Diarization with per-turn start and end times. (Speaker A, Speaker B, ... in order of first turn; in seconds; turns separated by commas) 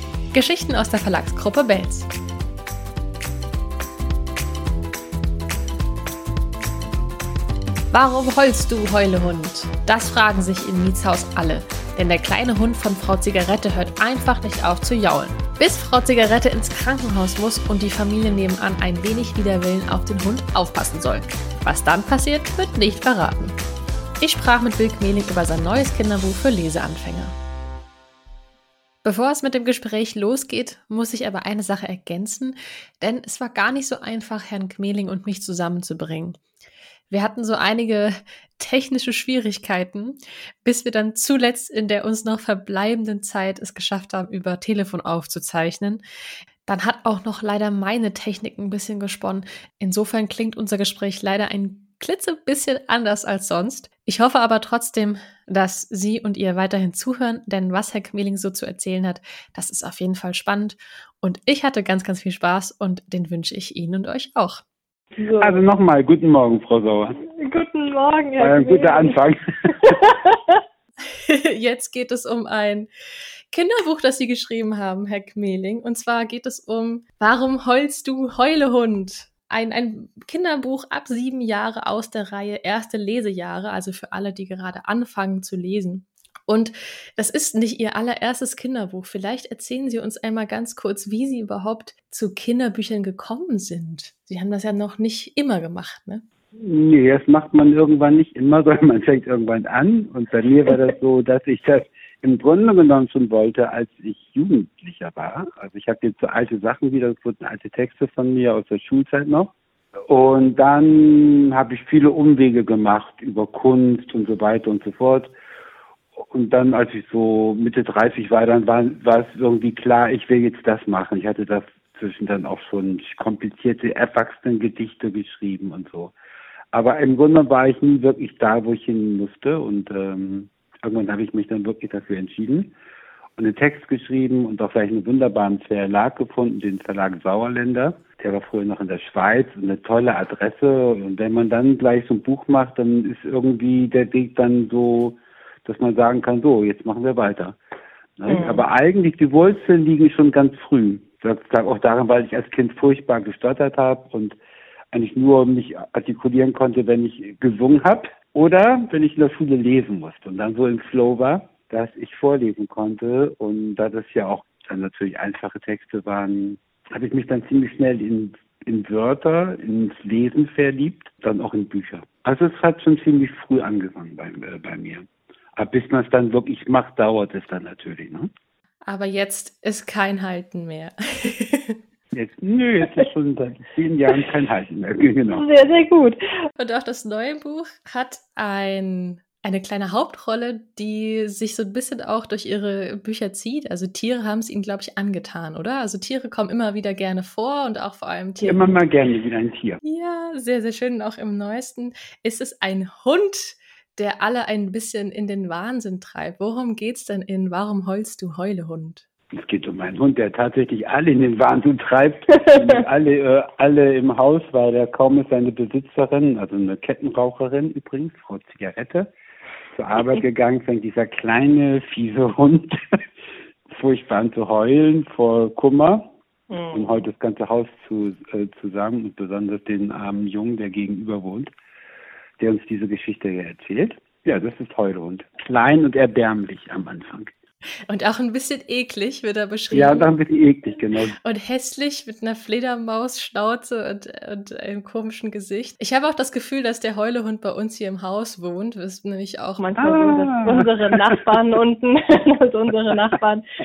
Speaker A: 0.3-2.1, Speaker A: 7.9-23.6, Speaker A: 24.2-27.4, Speaker A: 29.0-36.4, Speaker A: 37.1-46.0, Speaker A: 46.7-64.6, Speaker B: 65.2-65.6, Speaker C: 65.4-67.2, Speaker B: 67.3-69.2, Speaker C: 68.4-69.8, Speaker B: 70.1-70.6, Speaker A: 71.1-72.9, Speaker A: 73.5-96.2, Speaker C: 96.6-109.5, Speaker C: 110.1-115.3, Speaker C: 116.2-126.2, Speaker C: 126.7-132.7, Speaker C: 133.4-147.6, Speaker C: 148.2-154.4, Speaker B: 148.3-148.6, Speaker C: 154.9-178.3, Speaker A: 178.9-181.8, Speaker C: 182.1-185.5, Speaker B: 185.3-186.2, Speaker A: 186.6-198.8, Speaker C: 198.4-199.8, Speaker A: 199.8-209.1, Speaker C: 209.3-219.1, Speaker C: 219.8-222.8, Speaker C: 223.7-226.1, Speaker C: 226.7-231.5, Speaker C: 232.4-237.3, Speaker A: 237.9-240.2, Speaker C: 239.7-241.2, Speaker A: 241.2-249.9, Speaker B: 249.6-253.4, Speaker C: 249.8-251.3